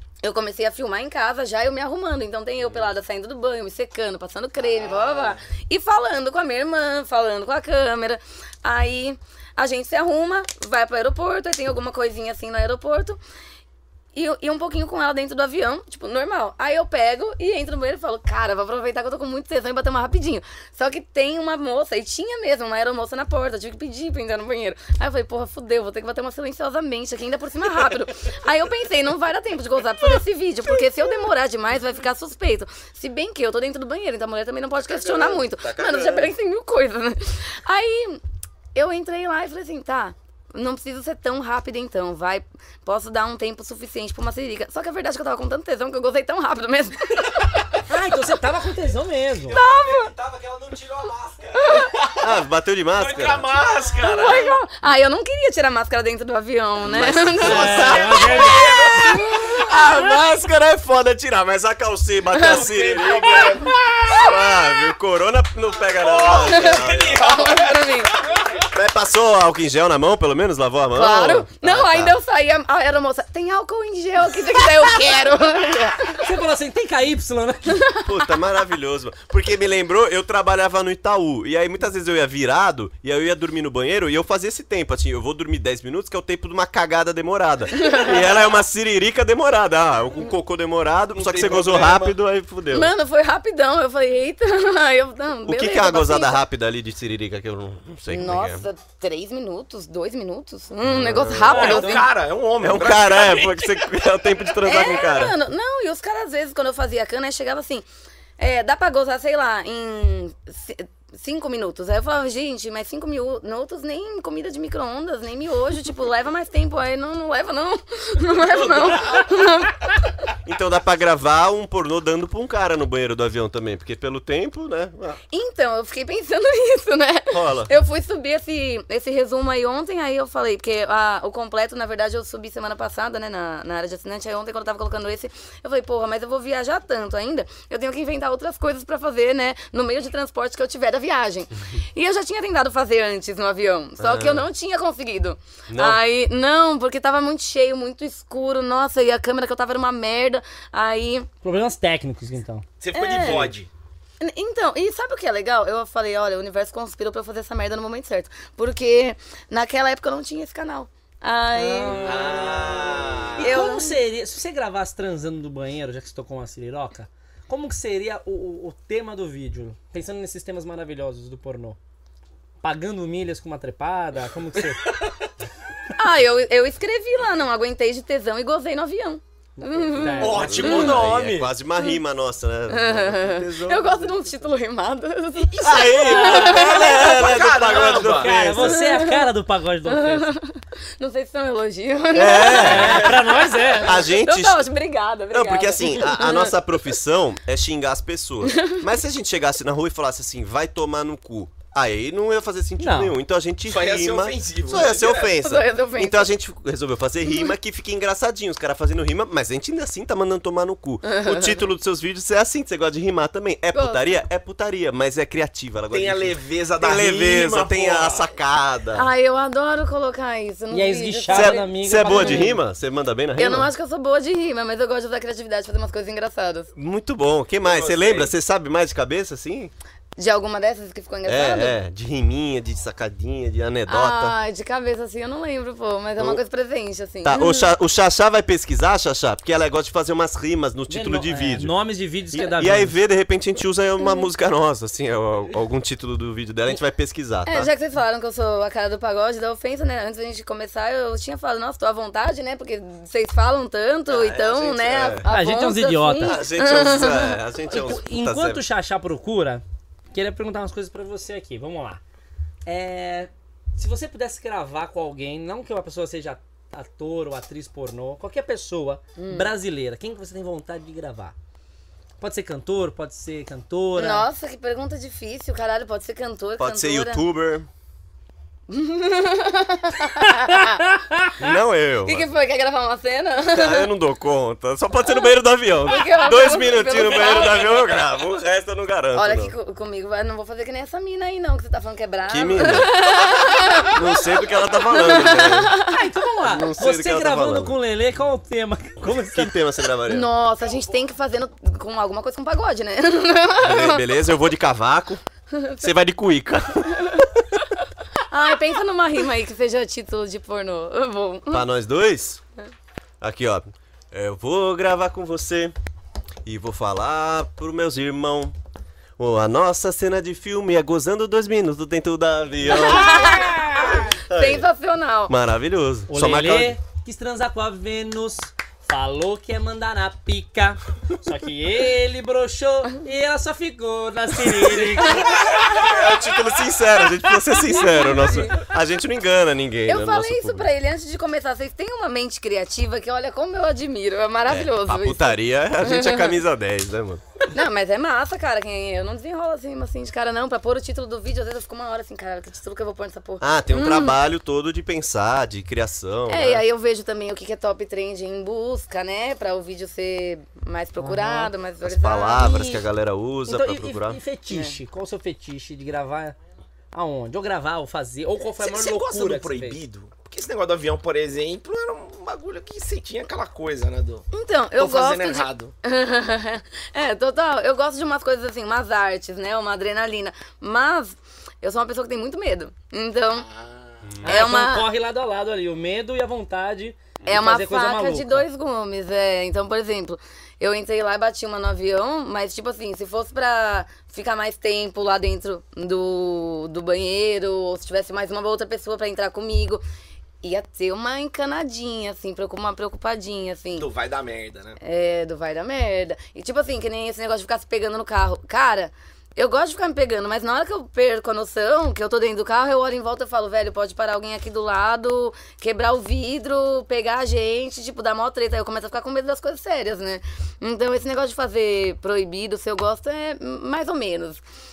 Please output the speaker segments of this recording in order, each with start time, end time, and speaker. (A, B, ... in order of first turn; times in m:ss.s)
0:00.2-0:13.2 A
0:04.6-0:05.4 B
0:14.1-0:38.2 A
0:34.8-0:36.3 C
0:38.7-0:47.5 A
0:47.9-0:49.6 D
0:49.4-0:51.9 E
0:49.5-0:50.1 A
0:51.6-0:51.9 A
0:52.2-0:53.5 C
0:53.0-0:54.5 B
0:54.0-1:00.2 A
0:56.8-1:07.4 C
0:57.4-0:58.6 D
0:57.7-0:59.6 B
1:02.3-1:04.3 A
1:02.4-1:04.3 B
1:05.9-1:08.6 B
1:06.2-1:08.2 A
1:08.7-1:12.2 C
1:10.9-1:16.2 A
1:16.2-1:17.9 D
1:17.7-1:18.1 A
1:18.0-1:32.9 C
1:27.7-1:28.3 A
1:31.1-1:32.1 B
1:32.7-1:36.4 A
1:35.4-1:38.6 C
1:38.1-1:42.1 A
1:40.8-1:41.7 C
1:41.5-1:42.0 D
1:41.5-1:43.8 B
1:42.6-1:45.4 C
1:44.6-1:47.8 A
1:48.4-2:00.1 A
1:58.5-1:59.3 B
2:00.4-2:05.2 C
2:05.3-2:31.3 A
2:07.3-2:07.7 C
2:24.0-2:24.5 C
2:25.7-2:26.0 C
2:31.4-2:32.6 D
2:32.8-2:33.7 B
2:32.9-2:33.5 A
2:34.2-2:42.7 A
2:41.5-2:42.4 D
2:42.0-2:43.6 B
2:43.4-2:44.0 A
2:43.4-2:51.8 D
2:52.6-2:54.9 D
2:56.0-3:01.0 A
2:59.6-3:00.6 D
3:00.2-3:01.5 B
3:00.3-3:04.1 C
3:02.7-3:07.3 A
3:05.6-3:08.8 C
3:05.7-3:08.6 B
3:08.1-3:10.3 D
3:08.6-3:09.3 A
3:09.8-3:16.6 A
3:12.1-3:13.2 C
3:12.4-3:14.0 D
3:12.7-3:13.1 B
3:13.8-3:14.7 C
3:15.3-3:39.1 C
3:18.4-3:18.8 A
3:22.8-3:23.2 D
3:23.6-3:25.3 B
3:25.3-3:26.3 A
3:31.0-3:31.6 A
3:33.7-3:34.2 A
3:35.9-3:38.3 B
3:38.9-3:42.6 A
3:40.7-3:42.6 D
3:41.3-3:43.7 C
3:43.4-3:46.7 A
3:46.8-3:49.7 C
3:47.6-3:48.3 B
3:50.2-3:51.8 A
3:51.2-3:54.4 C
3:53.9-3:57.7 A
3:57.2-4:01.7 C
4:00.9-4:02.9 D
4:02.3-4:07.7 C
4:07.4-4:17.4 A
4:14.1-4:15.3 C
4:15.3-4:16.4 D
4:16.2-4:18.6 C
4:17.7-4:22.0 D
4:22.6-4:31.3 D
4:29.2-4:29.5 A
4:32.2-4:34.2 D
4:34.0-4:37.2 A
4:36.6-4:37.7 C
4:38.7-4:40.8 A
4:40.2-4:41.4 D
4:41.4-4:42.3 C
4:42.0-4:43.9 A
4:43.5-4:49.5 C
4:45.0-4:45.3 A
4:45.8-4:47.9 A
4:49.1-4:54.1 A
4:52.3-4:53.0 C
4:53.9-4:55.8 C
4:54.7-4:56.0 A
4:55.9-4:59.6 D
4:56.4-4:57.8 C
4:59.0-5:00.3 C
5:00.1-5:04.0 A
5:03.6-5:05.2 C
5:05.5-5:05.8 A
5:05.8-5:07.2 C
5:06.9-5:07.3 A
5:08.3-5:11.6 A
5:11.5-5:12.4 C
5:13.2-5:15.7 C
5:16.4-5:18.5 C
5:19.2-5:23.5 C
5:22.6-5:24.1 D
5:22.7-5:25.3 A
5:24.3-5:24.7 C
5:25.3-5:26.8 C
5:26.1-5:35.3 D
5:35.2-5:35.6 B
5:35.3-5:40.7 C
5:38.2-5:38.5 A
5:39.9-5:46.4 A
5:44.5-5:47.2 C
5:47.5-5:54.2 A
5:53.4-5:56.6 C
5:56.3-6:02.6 A
6:01.0-6:01.5 D
6:01.8-6:04.2 C
6:02.4-6:02.8 D
6:03.5-6:06.4 D
6:04.5-6:04.8 A
6:06.9-6:09.8 D
6:08.6-6:14.2 B
6:14.3-6:23.5 A
6:14.8-6:15.7 B
6:23.4-6:24.0 B
6:24.0-6:24.4 C
6:24.2-6:28.4 D
6:24.2-6:24.9 A
6:27.2-6:39.8 A
6:40.4-6:43.9 A
6:43.8-6:44.8 B
6:44.8-7:04.4 A